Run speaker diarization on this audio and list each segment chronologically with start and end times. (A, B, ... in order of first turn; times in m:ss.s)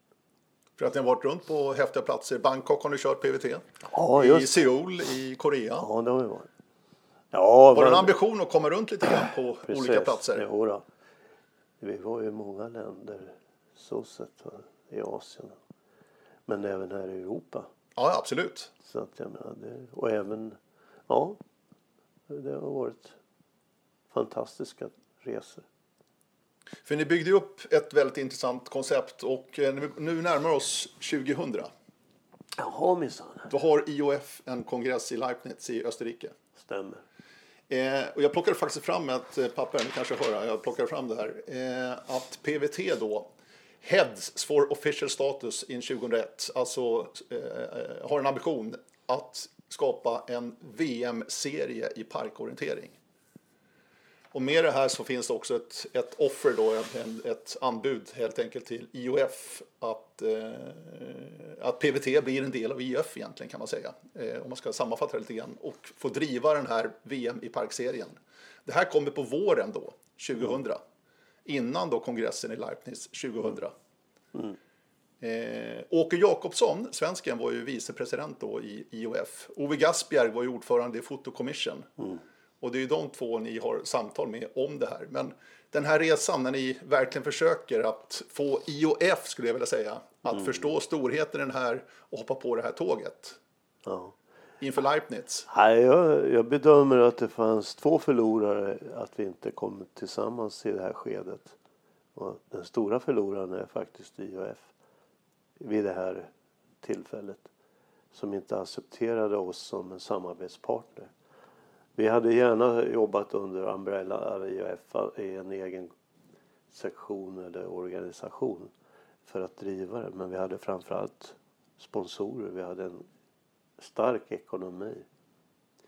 0:00.8-0:05.9 A
0:03.9-0:04.6 B
0:05.8-0:06.5 B
0:07.3-0:08.2 B
0:07.7-0:10.4 A
0:09.6-0:10.8 B
0:11.8-0:15.6 B
0:16.5-0:17.7 B
0:18.0-0:18.7 A
0:18.8-0:20.6 B
0:21.1-0:21.4 B
0:22.3-0:23.2 B
0:24.1-0:25.6 B
0:26.8-0:31.7 A
0:32.6-0:33.5 B
0:33.5-0:36.3 A
0:36.6-0:37.0 B
0:37.7-0:43.3 A
0:43.8-0:53.0 A
0:54.3-1:10.8 A
1:11.4-1:13.7 A
1:15.2-1:21.9 A
1:22.6-1:33.4 A
1:33.8-1:34.1 B
1:34.6-1:35.5 A
1:35.5-1:41.6 B
1:42.1-1:44.7 B
1:45.6-1:46.3 B
1:46.8-1:47.5 B
1:48.1-1:51.1 B
1:52.0-1:55.9 B
1:56.7-1:58.7 B
1:59.3-2:03.1 B
2:03.8-2:05.1 B